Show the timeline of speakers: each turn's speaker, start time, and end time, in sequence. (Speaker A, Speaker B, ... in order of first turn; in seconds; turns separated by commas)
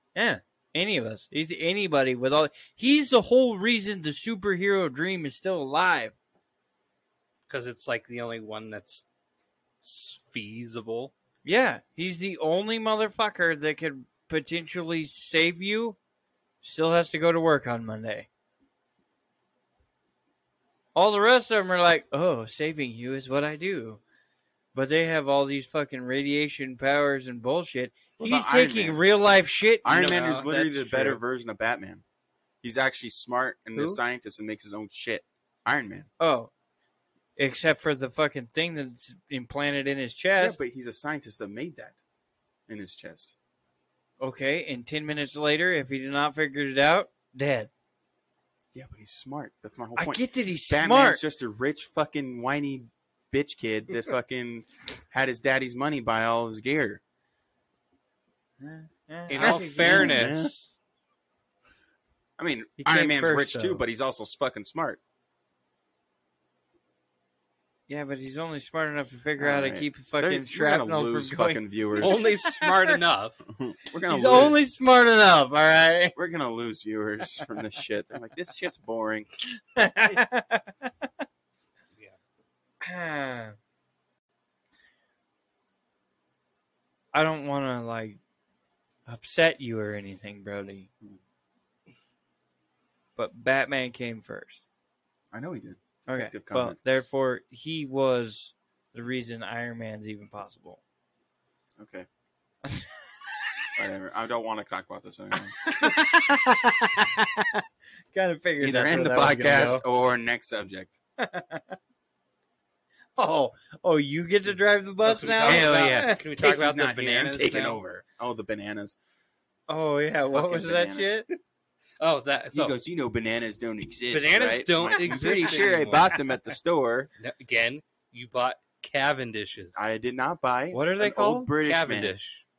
Speaker A: 0.1-6.1, Speaker B: 7.5-9.0, Speaker B: 9.8-11.1, Speaker A: 11.4-16.0, Speaker A: 16.6-18.3, Speaker A: 20.9-24.0, Speaker A: 24.7-31.2, Speaker C: 28.2-29.0, Speaker C: 29.8-32.0, Speaker B: 30.0-30.4, Speaker C: 32.6-36.1, Speaker A: 36.2-36.5, Speaker A: 37.4-40.6, Speaker C: 40.4-42.0, Speaker C: 42.7-43.3, Speaker A: 44.2-47.7, Speaker C: 48.7-57.0, Speaker A: 50.0-51.2, Speaker A: 58.6-60.2, Speaker B: 59.3-60.8, Speaker C: 59.4-60.5, Speaker C: 62.4-65.0, Speaker A: 62.8-63.8, Speaker A: 67.9-73.0, Speaker C: 69.4-72.2, Speaker B: 72.0-73.5, Speaker C: 73.5-74.6, Speaker A: 74.0-76.1, Speaker C: 76.1-79.3, Speaker A: 79.7-81.2, Speaker A: 82.8-83.6, Speaker A: 87.1-88.2, Speaker A: 89.0-90.9, Speaker A: 93.2-94.6, Speaker C: 95.3-97.0, Speaker A: 96.1-100.8, Speaker C: 101.8-102.1, Speaker A: 102.6-103.7, Speaker C: 103.7-105.7, Speaker A: 105.6-109.8, Speaker C: 108.6-111.0, Speaker A: 111.2-111.8, Speaker A: 113.2-116.2, Speaker B: 115.0-117.8, Speaker C: 115.4-119.0, Speaker A: 119.7-121.3, Speaker C: 120.3-121.2, Speaker B: 122.0-122.7, Speaker C: 122.5-127.1, Speaker B: 124.1-126.2, Speaker A: 125.2-125.7, Speaker B: 127.2-129.8, Speaker C: 129.8-132.2, Speaker A: 130.7-131.5, Speaker B: 131.6-132.4